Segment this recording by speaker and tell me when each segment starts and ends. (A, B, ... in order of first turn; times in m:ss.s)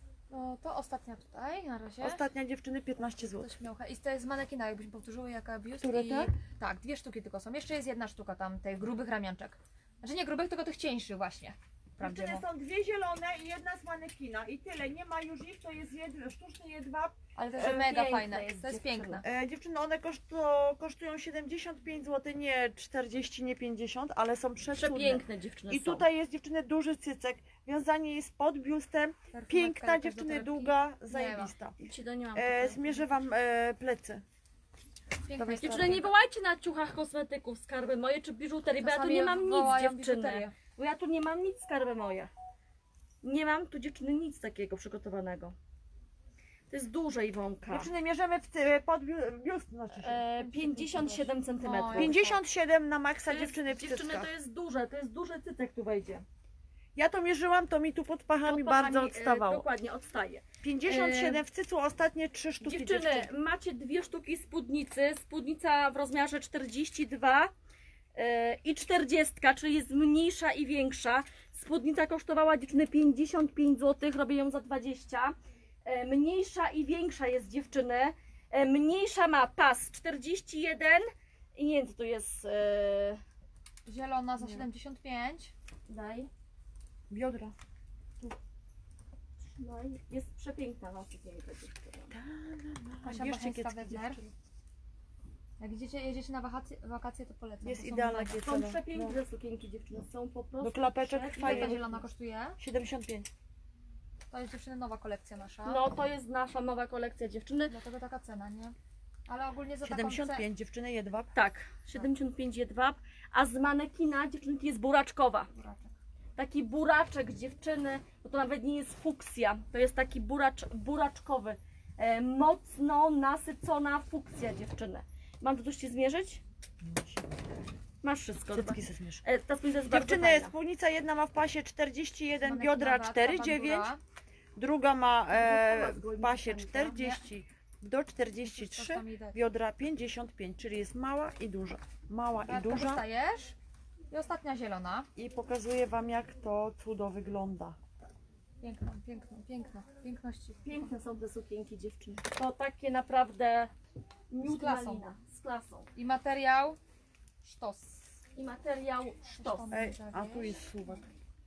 0:00.3-0:02.2 A
0:02.0-0:03.5 B
0:03.1-0:12.4 A
0:05.8-0:06.3 B
0:12.0-0:17.2 B
0:17.4-0:19.2 A
0:17.6-0:19.2 C
0:19.2-0:31.8 B
0:24.8-0:26.0 C
0:29.3-0:31.5 A
0:31.8-0:33.0 C
0:32.4-0:34.2 B
0:35.2-0:36.0 A
0:35.4-0:36.1 B
0:35.6-0:42.3 C
0:38.8-0:40.6 A
0:43.2-0:45.6 C
0:46.7-0:47.9 C
0:47.7-0:50.2 B
0:50.0-0:52.4 C
0:50.4-0:52.2 A
0:51.9-0:54.3 B
0:53.3-0:56.2 C
0:57.0-0:59.7 B
0:58.5-1:01.4 C
1:00.6-1:03.3 B
1:02.6-1:07.5 C
1:08.2-1:15.3 C
1:15.8-1:23.2 C
1:23.9-1:25.5 A
1:25.9-1:26.3 C
1:27.1-1:27.6 B
1:29.5-1:32.1 C
1:32.1-1:34.3 B
1:33.0-1:34.2 A
1:35.6-1:38.4 A
1:37.6-1:39.2 B
1:38.4-1:42.0 C
1:40.6-1:41.8 B
1:41.4-1:42.6 A
1:42.6-1:43.3 B
1:44.3-1:45.8 A
1:45.7-1:47.7 C
1:47.7-1:48.8 A
1:49.3-1:50.4 A
1:49.8-1:51.3 B
1:51.4-1:55.5 C
1:55.5-1:55.9 A
1:56.4-2:06.4 C
2:06.8-2:07.4 B
2:08.0-2:10.5 C
2:08.5-2:09.2 B
2:09.9-2:13.9 B
2:12.4-2:14.0 A
2:14.6-2:23.0 B
2:15.3-2:17.0 C
2:16.9-2:17.2 A
2:18.4-2:19.4 A
2:22.5-2:23.6 A
2:24.1-2:25.1 A
2:25.2-2:27.8 B
2:28.6-2:30.9 A
2:30.6-2:33.7 C
2:34.3-2:35.9 C
2:34.4-2:35.1 A
2:36.0-2:36.8 A
2:37.4-2:38.2 A
2:38.4-2:39.7 C
2:39.3-2:40.6 A
2:39.7-2:41.1 B